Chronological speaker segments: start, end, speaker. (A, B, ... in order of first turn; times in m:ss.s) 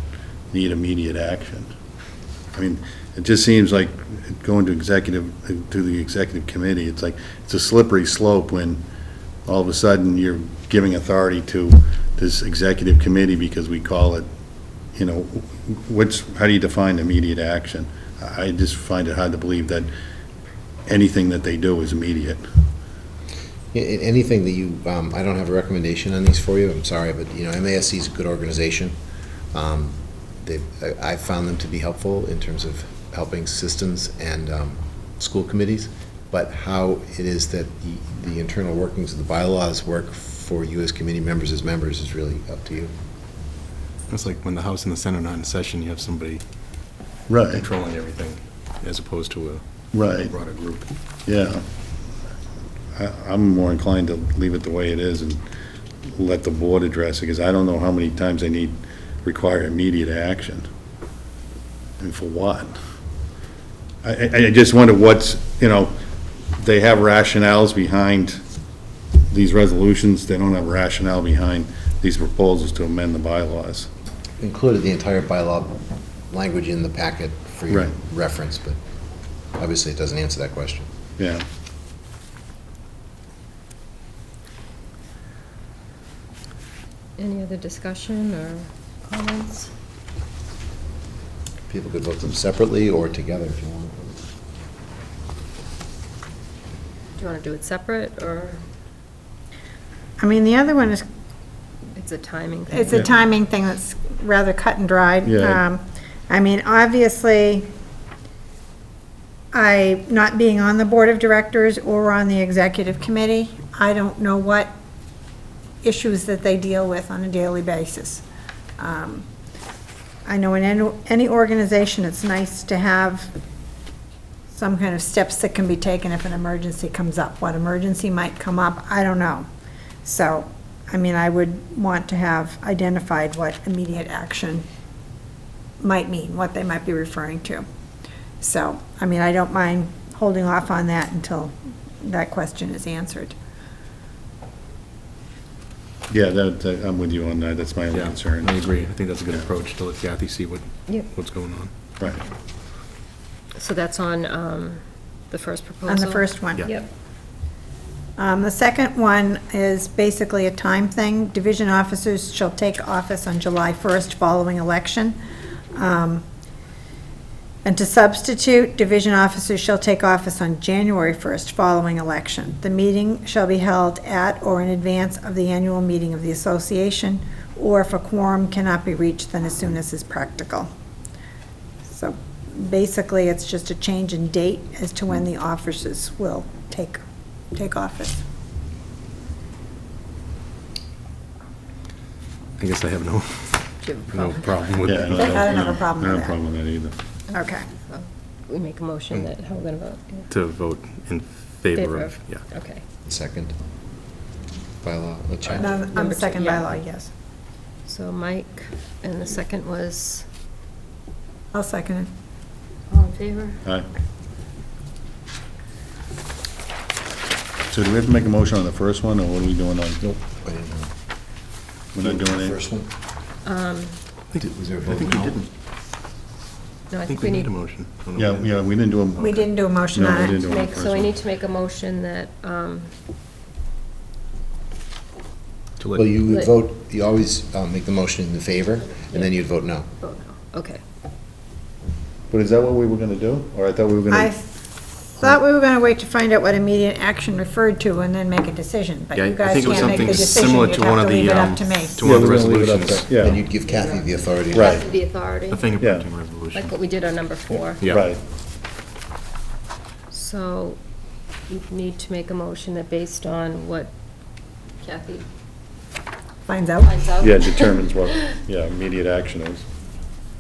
0:00.5-0:01.7 A
0:02.5-0:08.8 A
0:09.4-0:14.3 A
0:14.9-0:19.9 A
0:20.8-0:22.4 A
0:23.7-0:29.0 B
0:29.5-0:42.9 B
0:44.1-0:46.4 C
0:47.3-0:47.6 A
0:47.5-0:50.8 C
0:49.9-0:50.3 A
0:51.2-0:51.6 A
0:52.9-0:55.4 A
0:56.1-1:00.7 A
1:02.0-1:02.8 A
1:04.0-1:05.9 A
1:06.6-1:08.4 A
1:09.3-1:13.9 A
1:14.4-1:18.8 B
1:17.7-1:17.9 A
1:19.5-1:20.9 B
1:21.2-1:21.4 A
1:27.2-1:29.7 D
1:31.7-1:34.2 B
1:37.2-1:38.6 D
1:40.2-1:41.0 E
1:41.9-1:43.2 D
1:42.7-1:47.7 E
1:45.2-1:45.6 A
1:49.5-1:54.7 E
1:55.8-1:58.2 E
1:58.8-1:59.2 E
2:00.2-2:03.3 E
2:04.5-2:09.5 E
2:10.0-2:14.6 E
2:15.8-2:17.6 E
2:18.4-2:23.3 E
2:26.1-2:28.5 A
2:27.9-2:31.7 C
2:33.5-2:36.9 D
2:35.8-2:36.7 E
2:38.2-2:45.2 E
2:45.7-2:46.2 E
2:47.6-3:00.7 E
3:01.9-3:07.0 E
3:07.5-3:08.2 E
3:12.6-3:15.7 C
3:13.8-3:15.3 D
3:14.8-3:16.9 A
3:15.2-3:16.3 E
3:17.3-3:20.3 D
3:17.3-3:17.7 E
3:20.3-3:22.5 C
3:21.7-3:22.8 D
3:23.0-3:23.5 B
3:24.8-3:25.7 B
3:25.5-3:26.8 D
3:25.6-3:27.1 E
3:27.8-3:30.3 D
3:31.5-3:32.1 E
3:32.9-3:33.6 D
3:37.7-3:40.0 A
3:40.0-3:40.9 B
3:41.9-3:42.6 A
3:42.0-3:42.9 B
3:43.4-3:44.0 D
3:44.3-3:45.3 C
3:44.4-3:45.5 B
3:46.9-3:47.5 D
3:47.1-3:48.6 C
3:48.2-3:51.1 A
3:49.2-3:50.4 E
3:50.3-3:52.9 D
3:55.8-3:56.1 C
3:56.0-3:59.9 B
3:56.3-3:56.5 D
4:00.0-4:00.8 D
4:02.3-4:04.3 A
4:04.1-4:04.4 E
4:05.2-4:12.0 E
4:09.1-4:13.3 C
4:12.0-4:13.4 A
4:13.2-4:14.8 B
4:13.8-4:15.8 D
4:14.5-4:14.8 A
4:15.5-4:16.7 C
4:15.8-4:16.0 A
4:16.5-4:17.8 D
4:17.8-4:18.1 C
4:17.8-4:18.2 A
4:20.1-4:20.8 D
4:21.5-4:23.9 D
4:24.8-4:25.3 D
4:26.5-4:27.0 E
4:26.8-4:28.2 D
4:27.2-4:29.6 A